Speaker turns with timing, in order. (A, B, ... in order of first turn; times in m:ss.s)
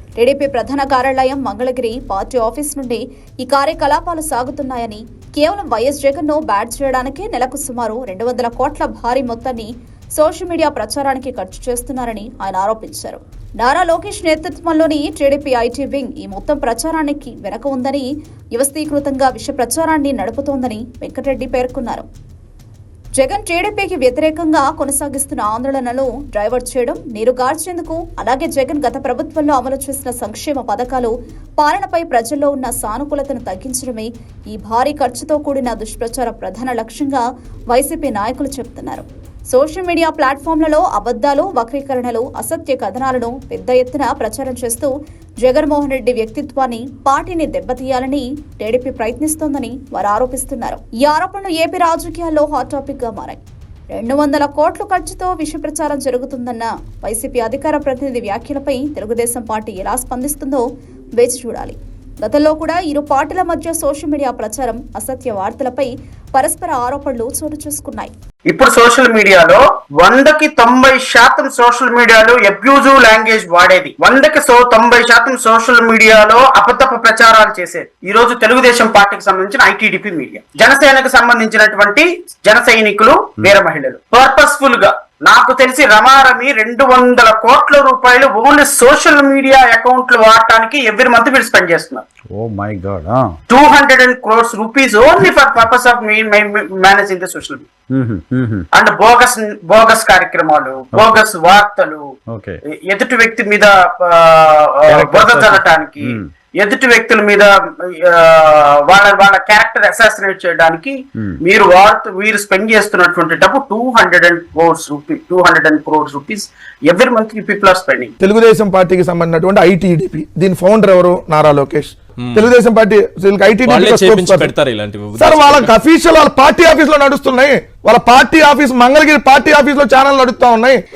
0:00.2-0:22.1 A
0:23.2-0:44.9 A
0:45.4-0:53.4 A
0:54.0-1:00.6 A
1:01.2-1:08.1 A
1:08.5-1:32.0 B
1:32.3-1:33.4 C
1:33.5-1:37.7 B
1:37.9-1:38.7 C
1:38.7-1:42.0 B
1:40.9-1:41.2 C
1:42.3-1:42.6 C
1:42.8-1:58.1 B
1:45.0-1:45.4 C
1:45.0-1:45.6 D
1:46.0-1:46.3 C
1:58.2-2:04.5 D
2:02.2-2:02.5 E
2:03.6-2:05.7 E
2:05.1-2:10.8 D